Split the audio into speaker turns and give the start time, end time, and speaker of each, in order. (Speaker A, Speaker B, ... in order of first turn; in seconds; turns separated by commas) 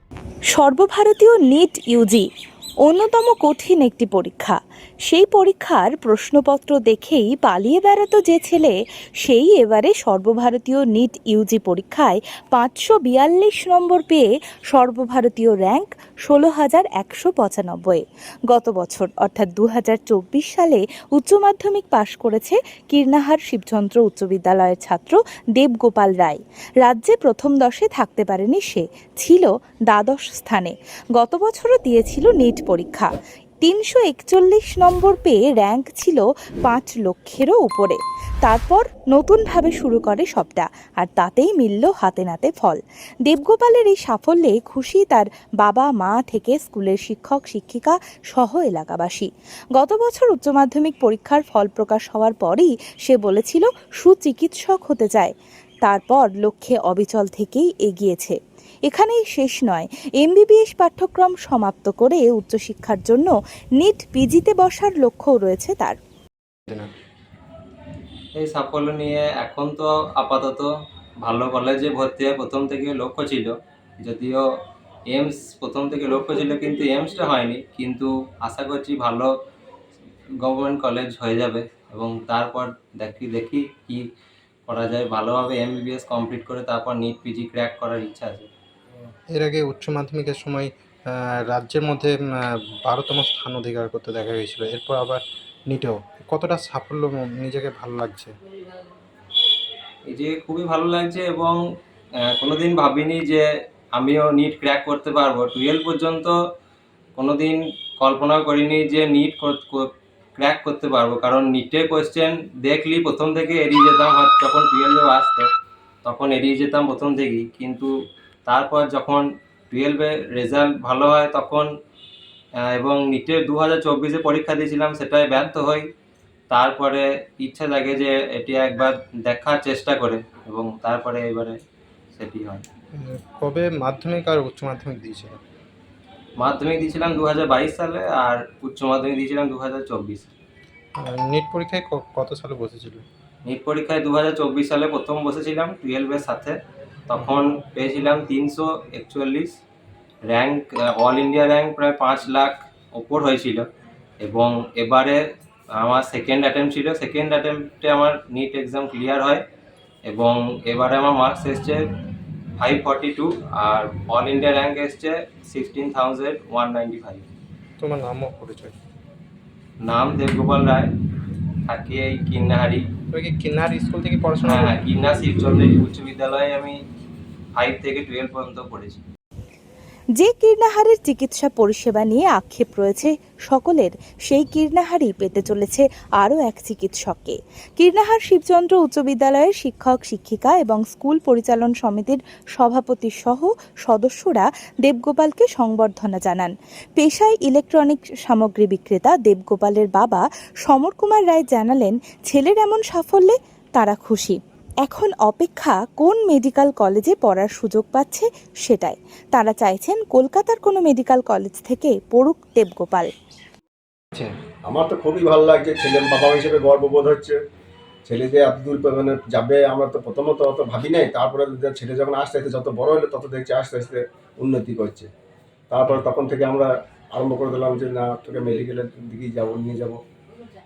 Speaker A: 0.6-2.3, Speaker A: 2.9-33.1, Speaker A: 33.6-66.0, Speaker B: 68.4-70.7, Speaker B: 71.2-73.5, Speaker B: 74.0-74.5, Speaker B: 75.1-79.3, Speaker B: 80.4-84.0, Speaker B: 84.7-88.5, Speaker C: 89.3-92.2, Speaker C: 92.9-98.4, Speaker B: 100.1-101.6, Speaker B: 102.2-106.4, Speaker B: 107.2-115.5, Speaker B: 116.0-117.9, Speaker B: 118.5-121.7, Speaker B: 122.7-125.9, Speaker B: 126.5-131.6, Speaker B: 132.1-132.6, Speaker C: 133.0-135.4, Speaker B: 136.4-140.3, Speaker C: 141.0-143.1, Speaker B: 143.5-146.6, Speaker B: 147.1-149.6, Speaker B: 150.3-153.7, Speaker B: 154.2-159.4, Speaker B: 160.1-161.9, Speaker B: 162.6-167.3, Speaker C: 167.8-168.8, Speaker B: 169.8-170.9, Speaker B: 171.7-172.9, Speaker C: 173.1-174.7, Speaker B: 174.4-176.8, Speaker B: 177.6-179.0, Speaker A: 180.2-213.1, Speaker D: 214.7-217.4, Speaker D: 218.1-225.1, Speaker D: 225.7-230.0